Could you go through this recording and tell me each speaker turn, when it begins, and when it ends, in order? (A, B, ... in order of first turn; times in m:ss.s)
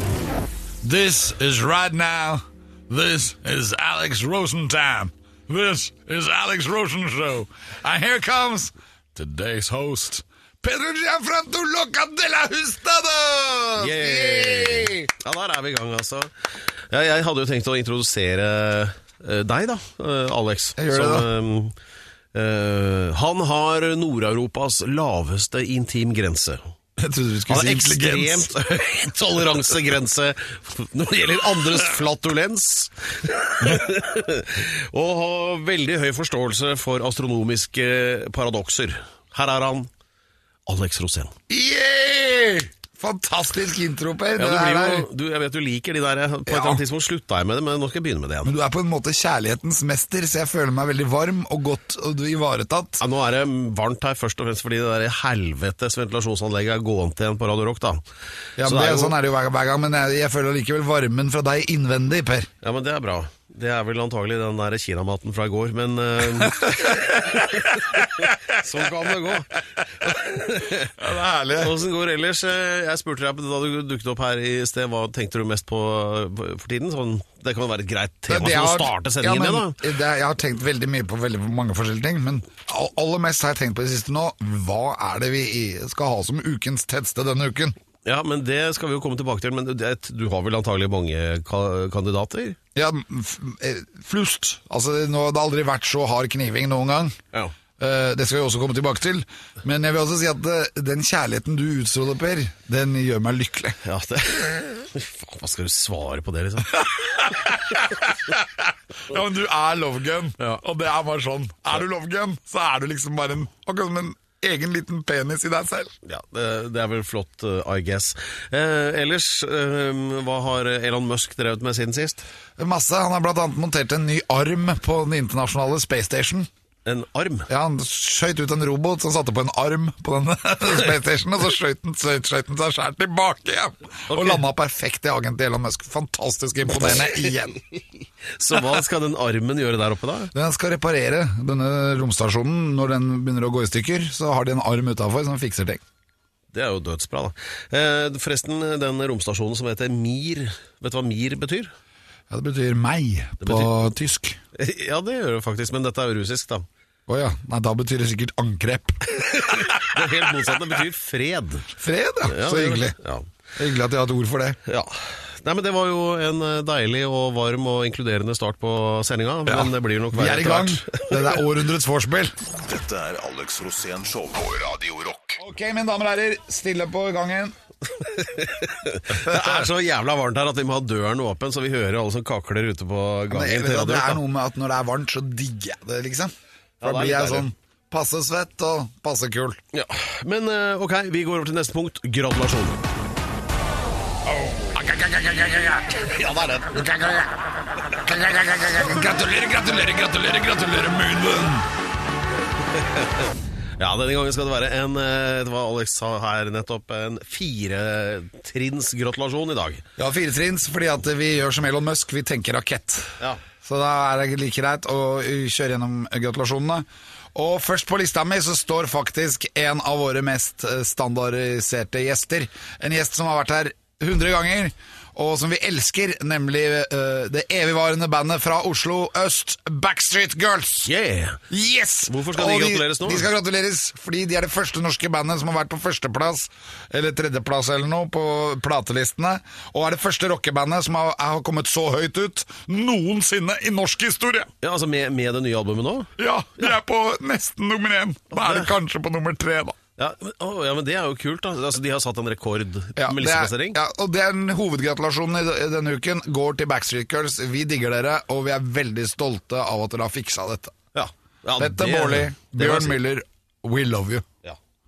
0:00.8-0:15.1 A
0:13.8-0:21.7 B
0:20.8-0:21.3 A
0:22.3-0:26.7 B
0:27.0-0:28.5 A
0:27.5-0:39.9 B
0:40.7-0:41.4 B
0:41.5-0:45.1 A
0:44.4-0:48.5 B
0:46.5-0:46.8 A
0:48.4-0:53.0 A
0:53.0-0:58.0 B
0:58.6-1:02.5 A
0:58.6-0:59.2 B
1:02.6-1:11.0 B
1:06.4-1:08.2 A
1:11.0-1:11.8 A
1:11.6-1:19.8 B
1:18.3-1:27.8 A
1:28.0-1:32.6 B
1:32.8-1:37.2 A
1:37.8-1:43.8 A
1:43.8-1:46.9 B
1:46.8-1:55.9 A
1:56.0-2:02.3 B
2:02.6-2:06.5 A
2:06.9-2:07.5 B
2:07.5-2:17.6 A
2:14.1-2:14.4 B
2:18.4-2:20.3 B
2:20.3-2:25.8 A
2:26.5-2:31.7 B
2:32.3-2:34.4 A
2:33.4-2:33.7 B
2:34.6-2:36.7 B
2:37.1-2:39.8 A
2:39.4-2:41.7 B
2:41.8-2:43.0 A
2:42.3-2:43.3 B
2:43.6-2:44.6 A
2:44.7-2:51.3 B
2:49.5-2:52.4 A
2:52.5-2:55.4 C
2:55.4-2:57.6 A
2:58.0-3:04.2 B
2:59.3-2:59.7 A
3:03.3-3:09.6 A
3:06.8-3:07.5 B
3:09.7-3:12.8 B
3:14.3-3:21.7 A
3:16.1-3:16.7 B
3:22.8-3:23.2 B
3:23.8-3:29.8 B
3:30.0-3:50.9 A
3:50.8-3:51.4 B
3:51.5-4:04.5 A
3:52.1-3:53.3 B
4:04.6-4:06.1 B
4:06.2-4:09.8 A
4:08.3-4:08.7 B
4:10.0-4:13.8 B
4:13.0-4:20.8 A
4:20.9-4:23.0 B
4:21.6-4:24.3 A